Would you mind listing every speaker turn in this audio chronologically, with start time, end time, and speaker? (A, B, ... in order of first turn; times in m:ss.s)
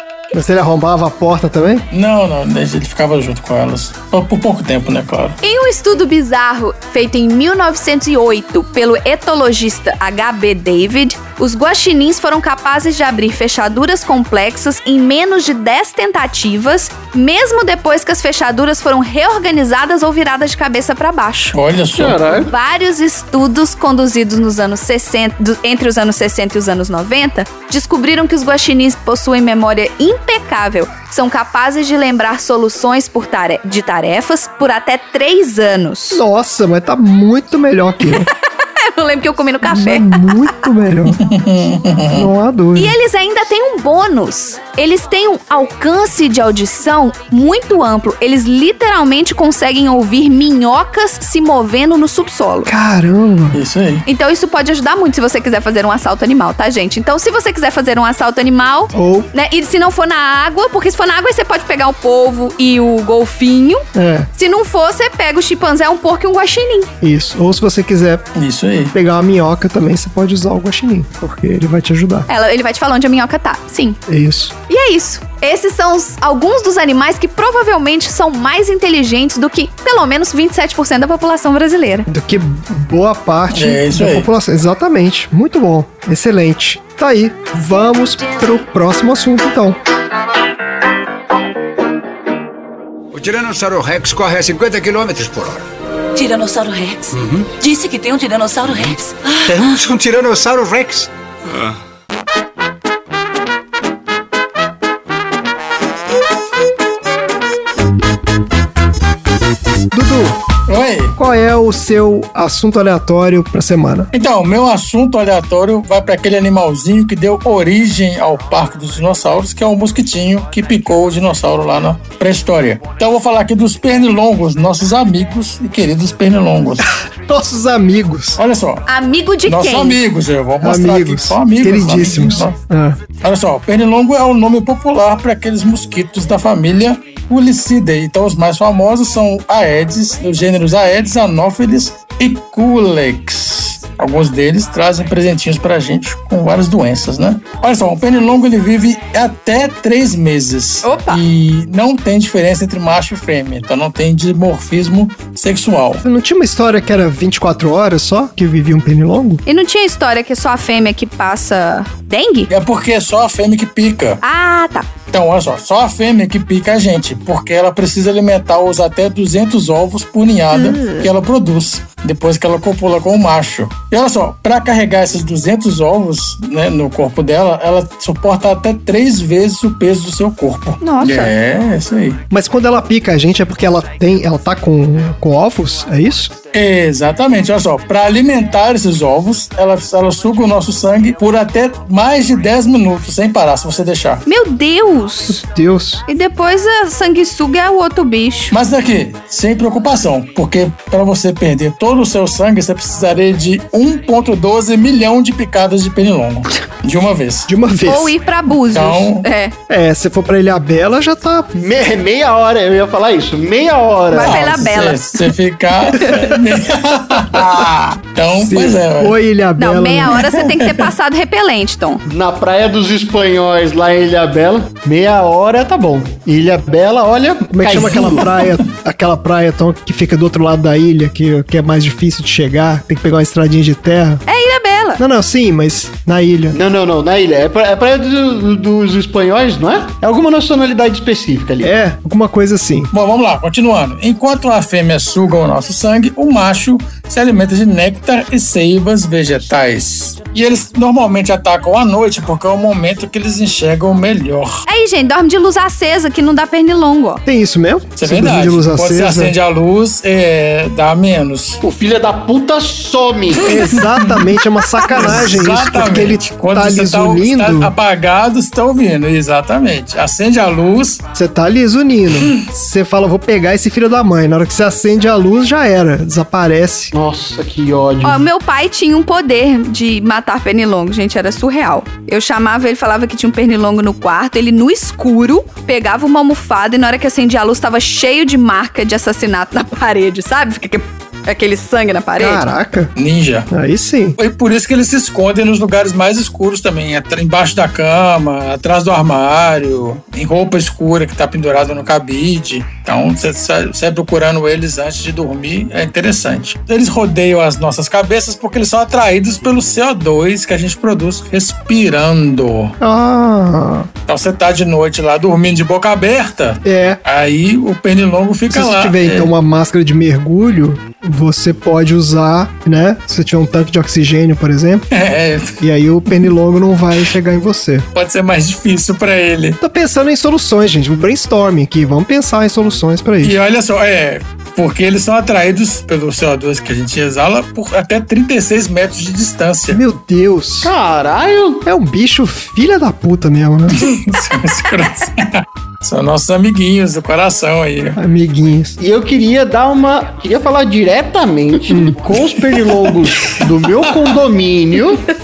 0:00.3-0:01.9 A
0:01.9-0:05.4 B
0:05.4-0:21.6 C
0:21.5-0:22.2 B
0:22.0-0:22.5 D
0:22.3-0:36.2 C
0:36.1-0:38.3 A
0:38.8-0:40.6 C
0:39.6-0:41.2 A
0:41.1-0:42.3 B
0:42.1-0:43.0 A
0:42.8-0:52.7 C
0:52.7-0:53.6 A
0:53.5-0:54.0 B
0:54.1-1:03.8 C
0:58.9-0:59.3 A
1:03.9-1:04.3 A
1:04.4-1:06.9 C
1:07.0-1:08.2 A
1:08.4-1:09.0 B
1:08.9-1:12.3 A
1:12.3-1:14.0 C
1:14.1-1:14.5 A
1:14.7-1:22.1 C
1:22.1-1:29.8 A
1:23.5-1:24.3 B
1:33.1-1:35.6 E
1:36.2-1:39.6 F
1:37.1-1:37.5 E
1:39.5-1:41.1 E
1:49.9-1:50.4 A
1:50.7-1:51.2 B
1:51.2-1:54.1 A
1:54.1-2:06.9 B
2:06.8-2:08.4 A
2:08.4-2:08.9 B
2:08.9-2:10.0 C
2:09.5-2:12.5 B
2:10.6-2:13.0 A
2:13.2-2:36.0 B
2:30.8-2:31.2 C
2:36.0-2:39.4 A
2:39.5-2:42.5 C
2:42.5-2:44.2 B
2:44.2-2:44.9 C
2:45.1-3:02.2 B
2:50.5-2:51.1 C
3:00.8-3:01.3 C
3:02.3-3:06.3 A
3:06.5-3:14.2 B
3:14.3-3:15.4 C
3:15.3-3:16.0 A
3:16.1-3:18.6 C
3:18.5-3:27.5 B
3:27.5-3:28.2 A
3:27.9-3:29.5 C
3:28.7-3:29.3 B
3:29.7-3:31.5 A
3:31.5-3:34.6 D
3:34.1-3:35.0 C
3:34.2-3:39.2 B
3:36.0-3:36.3 C
3:38.3-3:40.3 A
3:39.6-3:42.0 C
3:40.2-3:40.8 B
3:42.1-3:48.3 D
3:47.5-3:54.2 A
3:47.8-3:48.5 B
3:54.3-3:55.0 C
3:55.0-3:56.6 A
3:56.5-4:01.7 D
4:01.6-4:02.9 A
4:02.9-4:14.6 B
4:14.7-4:17.2 C
4:17.3-4:19.4 A
4:18.0-4:21.6 B
4:21.6-4:23.6 D
4:23.4-4:27.7 A
4:23.8-4:24.2 B
4:24.9-4:31.0 B
4:31.1-4:36.9 A
4:36.9-4:38.3 D
4:38.0-4:52.4 C
4:52.2-4:52.9 A
4:53.0-4:53.5 B
4:53.5-4:54.2 A
4:54.2-5:12.7 B
5:12.8-5:13.9 A
5:14.1-5:19.3 B
5:16.6-5:17.0 A
5:18.5-5:24.9 A
5:24.9-5:26.3 B
5:25.6-5:27.9 A
5:28.0-5:29.6 B
5:29.6-5:33.4 A
5:33.2-5:39.8 B
5:39.7-5:40.7 A
5:40.6-5:41.6 D
5:41.6-5:43.9 A
5:43.7-5:48.0 B
5:48.0-5:48.8 A
5:48.8-5:55.1 D
5:51.7-5:52.3 A
5:53.2-5:54.1 B